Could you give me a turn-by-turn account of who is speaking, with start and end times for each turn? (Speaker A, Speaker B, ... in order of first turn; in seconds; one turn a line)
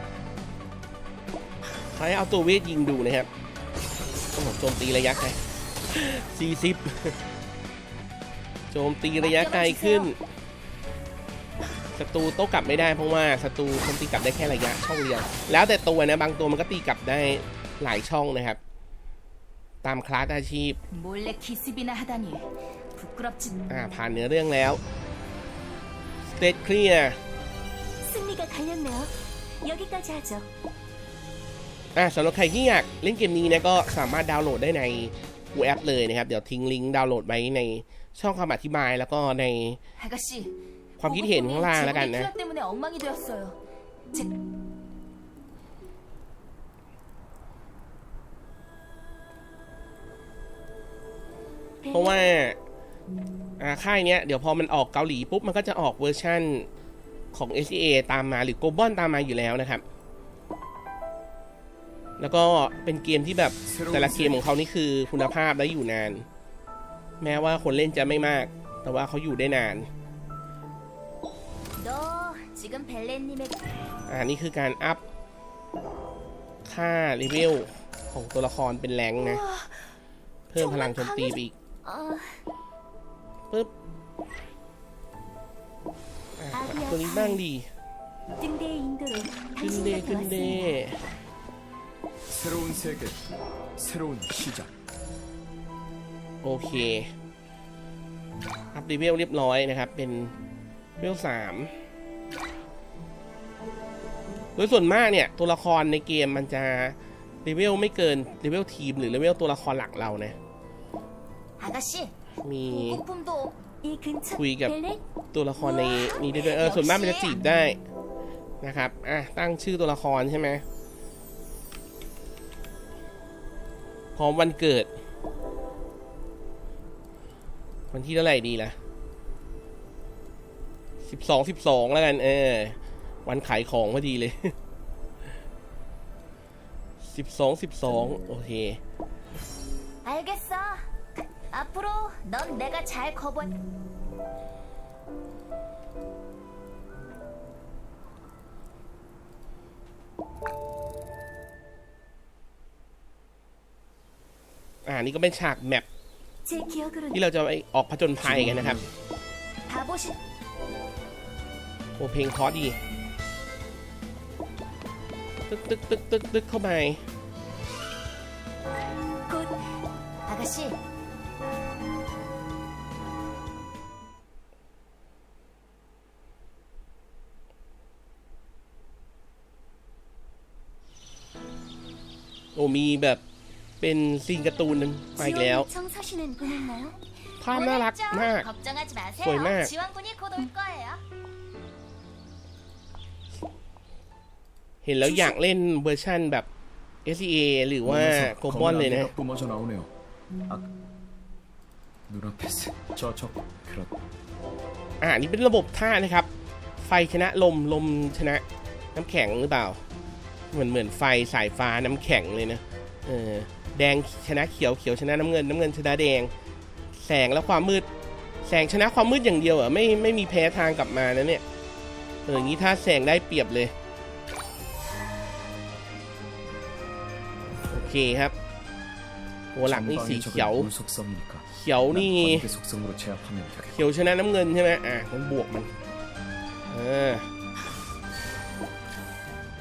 Speaker A: 1.9-3.3
Speaker A: 4.3-5.4
Speaker A: 5.9-7.2
Speaker A: 8.7-10.2
Speaker B: 9.2-10.1
Speaker A: 11.9-18.6
Speaker A: 19.8-20.8
Speaker B: 20.9-23.6
Speaker A: 23.7-24.8
Speaker A: 26.3-27.2
Speaker B: 28.0-30.5
Speaker A: 31.9-39.8
Speaker B: 40.0-43.6
Speaker A: 41.0-42.3
Speaker B: 51.8-52.2
Speaker A: 51.9-52.6
Speaker A: 53.6-56.7
Speaker A: 57.3-59.8
Speaker A: 62.2-66.2
Speaker C: 63.6-64.4
Speaker A: 67.2-69.9
Speaker B: 71.8-73.6
Speaker A: 74.1-75.0
Speaker A: 76.7-79.4
Speaker B: 79.2-79.9
Speaker A: 80.5-81.5
Speaker B: 80.5-82.4
Speaker A: 86.4-87.7
Speaker B: 86.5-87.4
Speaker B: 88.4-90.7
Speaker A: 89.6-91.0
Speaker C: 92.3-93.2
Speaker C: 93.8-94.7
Speaker A: 96.4-97.1
Speaker A: 98.7-100.3
Speaker A: 101.0-101.7
Speaker A: 104.5-110.3
Speaker B: 111.6-112.1
Speaker A: 112.4-113.0
Speaker B: 112.7-115.0
Speaker A: 114.3-114.7
Speaker A: 115.3-117.8
Speaker B: 115.6-117.4
Speaker A: 118.6-120.6
Speaker A: 124.2-124.9
Speaker A: 127.9-128.8
Speaker A: 131.0-134.5
Speaker A: 137.0-138.8
Speaker B: 140.0-140.9
Speaker B: 141.5-143.5
Speaker A: 154.8-155.8
Speaker B: 156.4-157.2
Speaker A: 157.1-158.8
Speaker C: 158.2-158.9
Speaker B: 159.7-160.2
Speaker A: 162.0-162.8
Speaker A: 165.5-167.0
Speaker B: 169.3-169.6
Speaker B: 170.2-170.8
Speaker A: 182.5-183.2
Speaker A: 183.8-185.7
Speaker B: 185.2-191.0
Speaker A: 187.4-188.5
Speaker A: 189.2-189.7
Speaker A: 194.8-196.4
Speaker B: 195.0-195.3
Speaker A: 197.0-199.1
Speaker C: 197.8-199.9
Speaker C: 202.1-203.9
Speaker A: 205.0-206.3
Speaker A: 206.8-208.4
Speaker A: 208.9-209.8
Speaker A: 210.5-216.3
Speaker A: 216.9-217.8
Speaker A: 218.4-221.4
Speaker A: 222.2-223.7
Speaker A: 227.7-228.3
Speaker A: 229.5-230.7
Speaker C: 229.6-233.8
Speaker A: 231.5-232.5
Speaker A: 233.8-235.7
Speaker A: 236.7-237.3